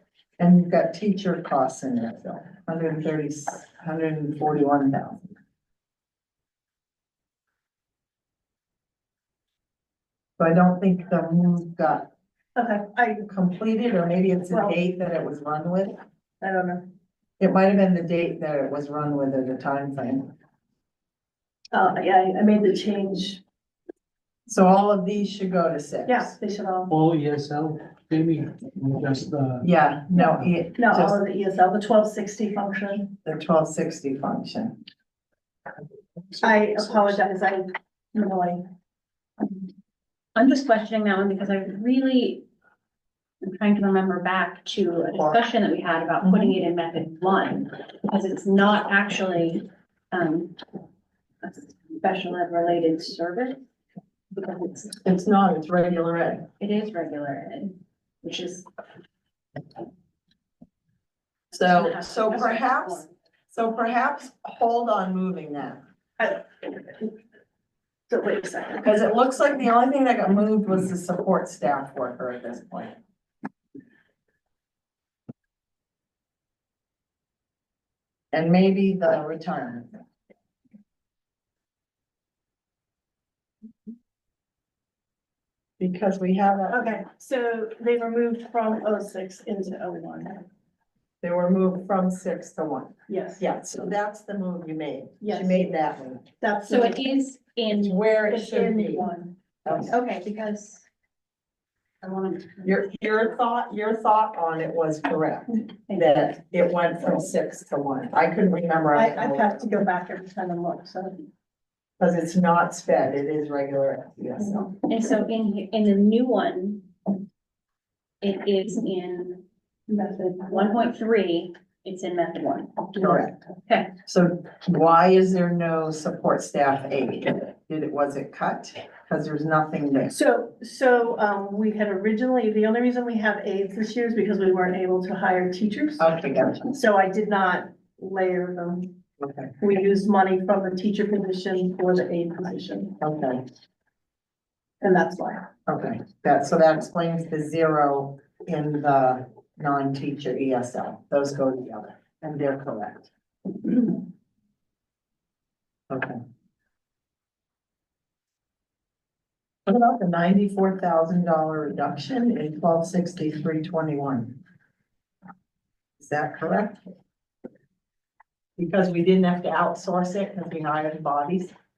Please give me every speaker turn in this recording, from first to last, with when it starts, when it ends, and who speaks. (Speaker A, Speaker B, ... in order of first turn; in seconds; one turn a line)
Speaker A: 0.4-5.3
Speaker A: 10.4-12.1
Speaker B: 12.6-13.3
Speaker A: 13.3-16.0
Speaker B: 16.4-16.9
Speaker A: 17.4-20.3
Speaker B: 21.7-23.4
Speaker A: 24.5-26.4
Speaker B: 26.1-26.9
Speaker C: 26.9-29.7
Speaker A: 29.6-31.2
Speaker B: 30.8-33.1
Speaker A: 33.2-34.8
Speaker B: 36.4-38.6
Speaker D: 40.4-42.5
Speaker D: 43.4-50.6
Speaker D: 51.4-53.6
Speaker D: 54.3-55.0
Speaker A: 55.0-56.5
Speaker D: 56.6-58.7
Speaker D: 61.5-63.1
Speaker A: 61.5-65.8
Speaker B: 68.1-68.9
Speaker A: 68.8-73.0
Speaker A: 78.3-79.9
Speaker A: 85.8-87.0
Speaker B: 86.7-90.4
Speaker A: 91.2-96.3
Speaker B: 93.1-93.5
Speaker B: 95.2-95.7
Speaker B: 96.4-97.0
Speaker D: 96.7-98.0
Speaker A: 97.8-99.1
Speaker B: 98.3-99.3
Speaker A: 99.7-100.0
Speaker D: 99.9-100.8
Speaker D: 102.0-103.0
Speaker A: 102.6-109.6
Speaker B: 108.9-111.2
Speaker A: 112.0-114.8
Speaker D: 114.9-116.9
Speaker D: 118.2-119.4
Speaker B: 119.9-120.7
Speaker D: 120.2-124.0
Speaker A: 123.0-123.4
Speaker A: 124.1-130.2
Speaker B: 130.1-136.1
Speaker A: 136.0-136.8
Speaker B: 136.7-138.9
Speaker A: 139.2-139.5
Speaker B: 139.6-143.0
Speaker A: 143.0-143.4
Speaker B: 144.8-145.5
Speaker A: 145.7-153.1
Speaker A: 155.9-156.2
Speaker A: 159.7-164.4
Speaker A: 166.0-166.9
Speaker A: 168.6-171.5